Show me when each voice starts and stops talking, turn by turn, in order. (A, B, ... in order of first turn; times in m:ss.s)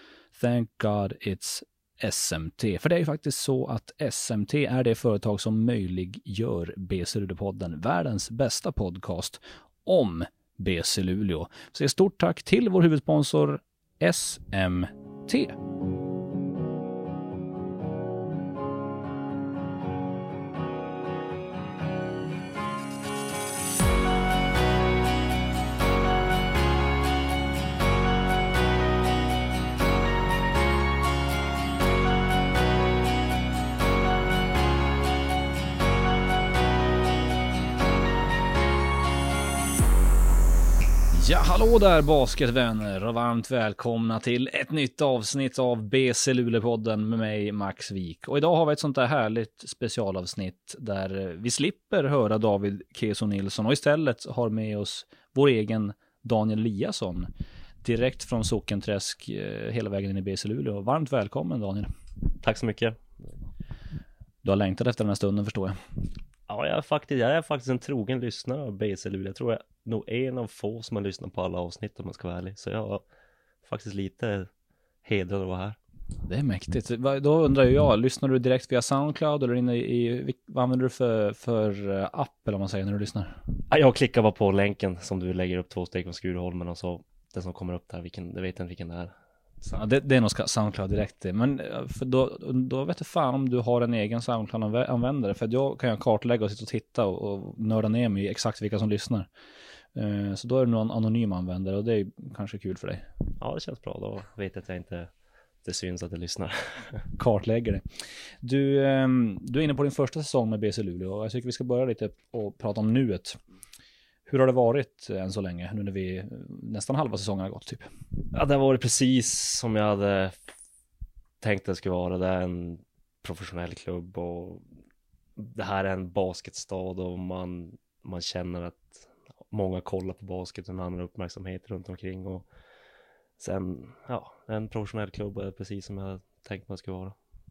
0:00.3-0:15.6 A
0:41.1-0:57.3 A
0:57.8-1:01.9 A
1:02.4-1:03.1 B
1:04.4-1:05.8 A
1:06.5-1:13.0 B
1:13.6-1:14.5 B
1:15.0-1:15.8 B
1:16.3-1:23.4 A
1:23.7-1:29.1 B
1:29.7-1:39.3 A
1:40.0-1:43.1 A
1:43.4-1:45.1 B
1:45.6-1:47.0 B
1:47.2-1:53.4 A
1:54.3-1:57.9 A
1:58.3-2:00.4 B
2:01.4-2:04.6 B
2:05.4-2:12.5 B
2:13.4-2:17.2 B